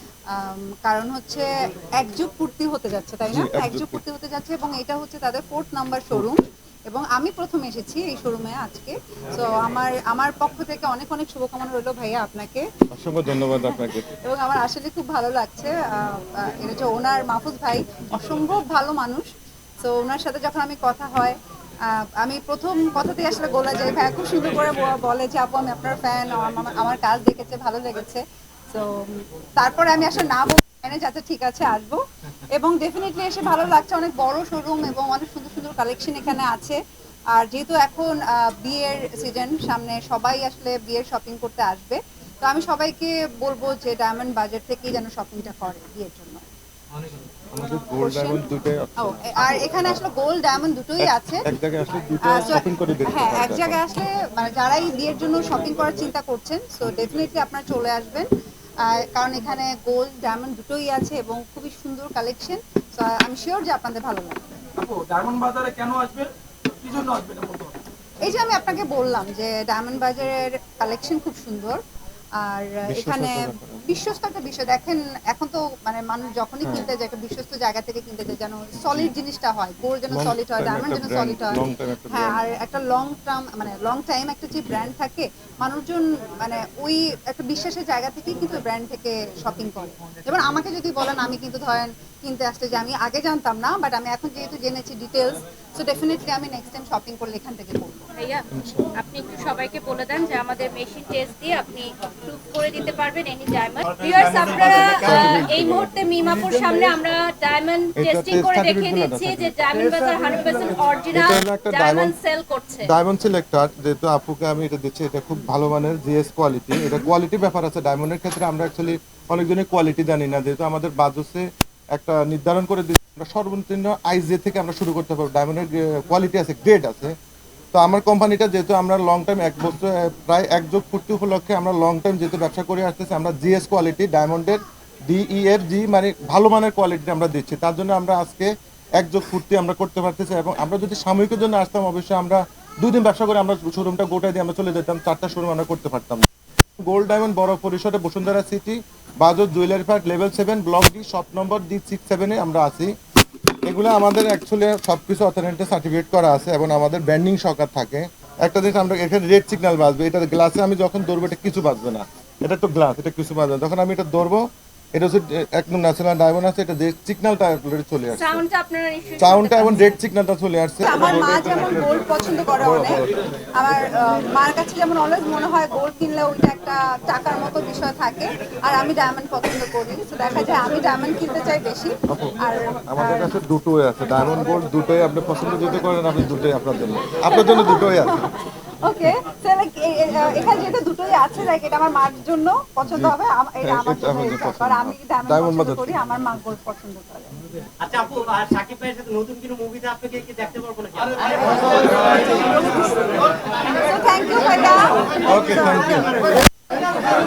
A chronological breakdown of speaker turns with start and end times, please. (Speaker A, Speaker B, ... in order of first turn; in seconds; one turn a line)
Speaker A: 0.3-1.5
Speaker A: 2.0-12.7
Speaker B: 3.3-4.0
Speaker B: 12.9-14.1
Speaker A: 13.6-19.3
Speaker A: 19.8-21.4
Speaker A: 21.9-32.0
Speaker A: 32.5-36.8
Speaker A: 37.3-46.4
Speaker B: 47.5-50.0
Speaker A: 48.0-48.4
Speaker A: 49.0-51.4
Speaker B: 51.0-53.8
Speaker A: 52.3-58.3
Speaker A: 58.8-64.6
Speaker C: 64.8-67.8
Speaker A: 68.2-71.8
Speaker A: 72.4-81.6
Speaker B: 72.9-73.9
Speaker B: 78.8-79.1
Speaker B: 80.1-82.4
Speaker A: 82.1-98.0
Speaker D: 98.2-112.9
Speaker B: 98.5-98.9
Speaker E: 104.0-104.6
Speaker B: 104.6-106.9
Speaker B: 108.0-109.6
Speaker B: 111.1-112.1
Speaker B: 112.9-127.1
Speaker B: 127.7-146.3
Speaker B: 146.8-152.9
Speaker B: 153.7-168.4
Speaker D: 168.1-170.0
Speaker B: 169.2-173.1
Speaker A: 170.8-173.0
Speaker A: 173.6-183.3
Speaker B: 182.1-182.4
Speaker B: 182.9-188.2
Speaker A: 187.3-197.3
Speaker B: 192.8-196.1
Speaker E: 197.8-202.1
Speaker A: 202.1-203.1
Speaker A: 203.7-206.1
Speaker B: 205.3-206.1